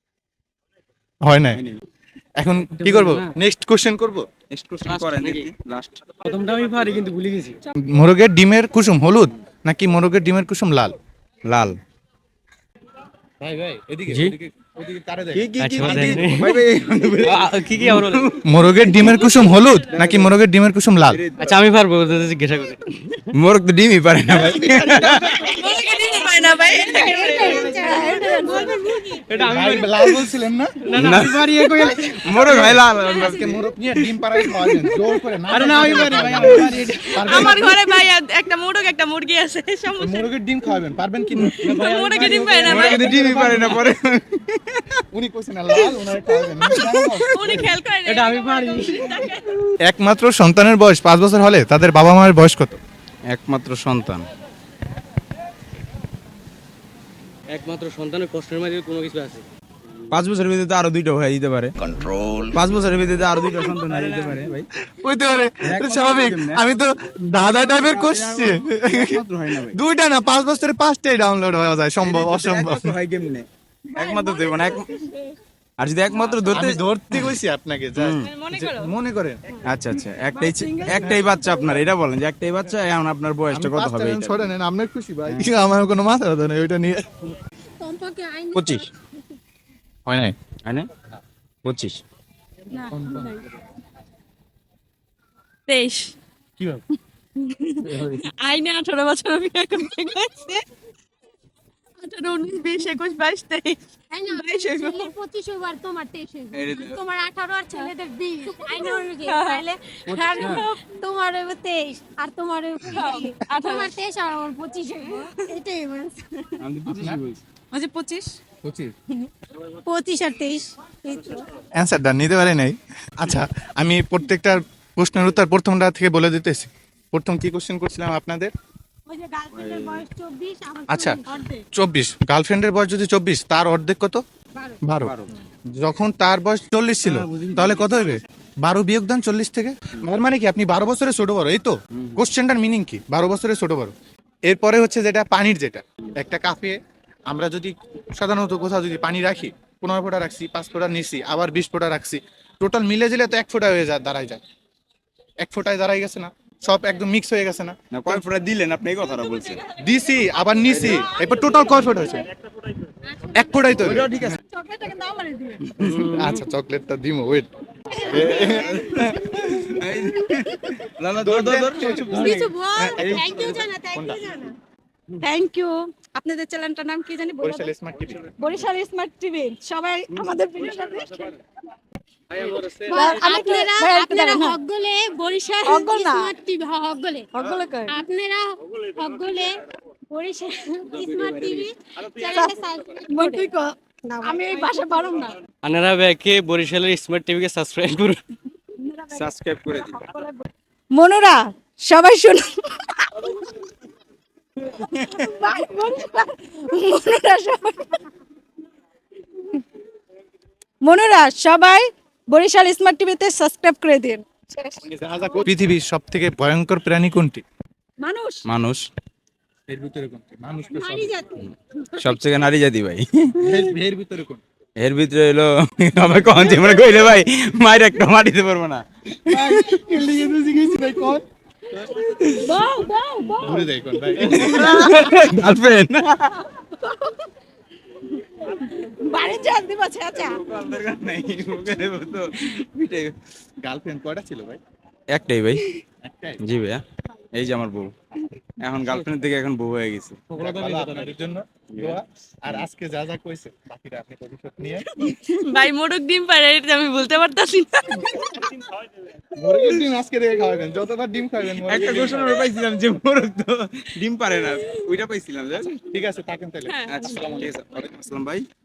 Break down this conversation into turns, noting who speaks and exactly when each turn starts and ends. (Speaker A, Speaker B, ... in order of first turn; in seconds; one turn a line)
Speaker A: 1.2-1.6
Speaker B: 1.5-1.8
Speaker A: 2.4-4.2
Speaker C: 2.8-3.3
Speaker B: 4.5-6.0
Speaker C: 4.8-5.5
Speaker C: 6.2-7.6
Speaker A: 7.8-10.9
Speaker B: 11.4-11.8
Speaker A: 13.4-16.3
Speaker C: 14.1-14.3
Speaker B: 15.3-20.3
Speaker C: 15.6-16.6
Speaker C: 17.2-18.4
Speaker A: 18.4-21.2
Speaker B: 21.1-21.6
Speaker C: 21.4-23.3
Speaker B: 23.3-25.5
Speaker C: 24.5-27.9
Speaker D: 25.5-29.2
Speaker E: 25.6-29.1
Speaker F: 26.4-27.1
Speaker C: 29.3-30.3
Speaker A: 29.4-30.8
Speaker C: 30.8-32.5
Speaker B: 30.9-33.6
Speaker A: 32.4-38.1
Speaker C: 35.5-37.4
Speaker F: 37.3-40.2
Speaker A: 40.0-43.6
Speaker C: 41.6-43.8
Speaker F: 41.8-43.0
Speaker B: 42.6-44.9
Speaker A: 45.1-47.7
Speaker F: 47.3-49.4
Speaker C: 48.1-49.1
Speaker A: 49.8-52.8
Speaker B: 53.3-54.3
Speaker C: 57.5-59.4
Speaker B: 60.1-61.9
Speaker B: 62.5-64.7
Speaker C: 63.9-64.3
Speaker A: 65.0-69.2
Speaker B: 65.6-66.7
Speaker B: 67.6-69.8
Speaker A: 69.7-72.9
Speaker B: 72.0-74.9
Speaker E: 74.0-75.2
Speaker B: 75.8-77.4
Speaker A: 76.5-79.4
Speaker B: 78.0-78.3
Speaker F: 78.4-78.8
Speaker B: 79.6-84.5
Speaker E: 80.4-81.1
Speaker A: 83.5-87.2
Speaker D: 87.8-88.8
Speaker B: 88.5-88.9
Speaker A: 90.1-90.3
Speaker B: 91.6-92.0
Speaker E: 92.7-93.4
Speaker A: 92.8-93.4
Speaker F: 95.7-96.1
Speaker E: 97.4-97.7
Speaker C: 97.8-98.2
Speaker F: 98.2-100.5
Speaker F: 102.1-103.8
Speaker D: 104.1-116.6
Speaker F: 104.4-105.1
Speaker B: 106.5-107.0
Speaker F: 108.8-109.7
Speaker B: 110.2-110.6
Speaker E: 112.9-113.8
Speaker F: 113.0-113.9
Speaker B: 116.6-117.4
Speaker E: 117.7-118.4
Speaker A: 118.6-118.9
Speaker D: 119.8-121.5
Speaker A: 121.8-128.5
Speaker D: 129.1-131.6
Speaker B: 129.5-130.1
Speaker A: 130.9-131.2
Speaker A: 131.7-134.2
Speaker D: 134.5-134.8
Speaker A: 134.8-135.1
Speaker B: 135.0-135.3
Speaker A: 135.7-143.9
Speaker C: 137.0-138.0
Speaker B: 141.9-142.2
Speaker A: 144.4-154.4
Speaker A: 155.4-158.2
Speaker B: 157.9-159.6
Speaker A: 159.8-162.3
Speaker D: 163.1-163.5
Speaker A: 163.3-164.3
Speaker B: 163.8-164.4
Speaker E: 164.5-165.6
Speaker C: 165.8-166.4
Speaker A: 165.8-168.8
Speaker B: 168.1-173.5
Speaker D: 168.2-168.8
Speaker A: 171.2-174.2
Speaker D: 171.8-174.6
Speaker E: 175.2-177.7
Speaker A: 177.4-178.3
Speaker E: 178.4-181.3
Speaker C: 182.3-183.2
Speaker D: 182.8-187.3
Speaker E: 182.9-184.6
Speaker E: 185.6-186.3
Speaker E: 187.3-188.0
Speaker D: 187.9-189.5
Speaker D: 190.1-193.5
Speaker C: 191.0-191.6
Speaker E: 192.3-192.6
Speaker E: 193.1-195.3
Speaker D: 194.0-194.8
Speaker C: 195.6-198.2
Speaker E: 198.8-199.3
Speaker B: 199.1-200.0
Speaker E: 200.0-203.3
Speaker E: 204.8-208.0
Speaker E: 210.8-214.8
Speaker A: 214.8-217.4
Speaker E: 218.0-218.4
Speaker B: 218.4-218.8
Speaker A: 219.7-221.2
Speaker D: 220.7-221.5
Speaker B: 221.4-223.3
Speaker A: 223.4-224.4
Speaker B: 224.8-229.8
Speaker A: 229.3-231.2
Speaker B: 232.1-232.6
Speaker E: 232.4-233.7
Speaker A: 233.4-235.3
Speaker B: 234.2-236.4
Speaker E: 236.6-237.2
Speaker E: 238.6-240.4
Speaker D: 239.1-239.6
Speaker B: 240.1-243.1
Speaker A: 243.6-244.6
Speaker B: 245.1-245.7
Speaker A: 246.0-246.4
Speaker B: 246.4-246.8
Speaker B: 247.3-247.9
Speaker B: 248.6-250.2
Speaker C: 250.3-251.1
Speaker A: 250.4-255.1
Speaker B: 251.7-252.0
Speaker F: 255.4-258.0
Speaker A: 259.4-262.4
Speaker B: 261.6-265.8
Speaker A: 265.9-267.5
Speaker B: 266.9-268.4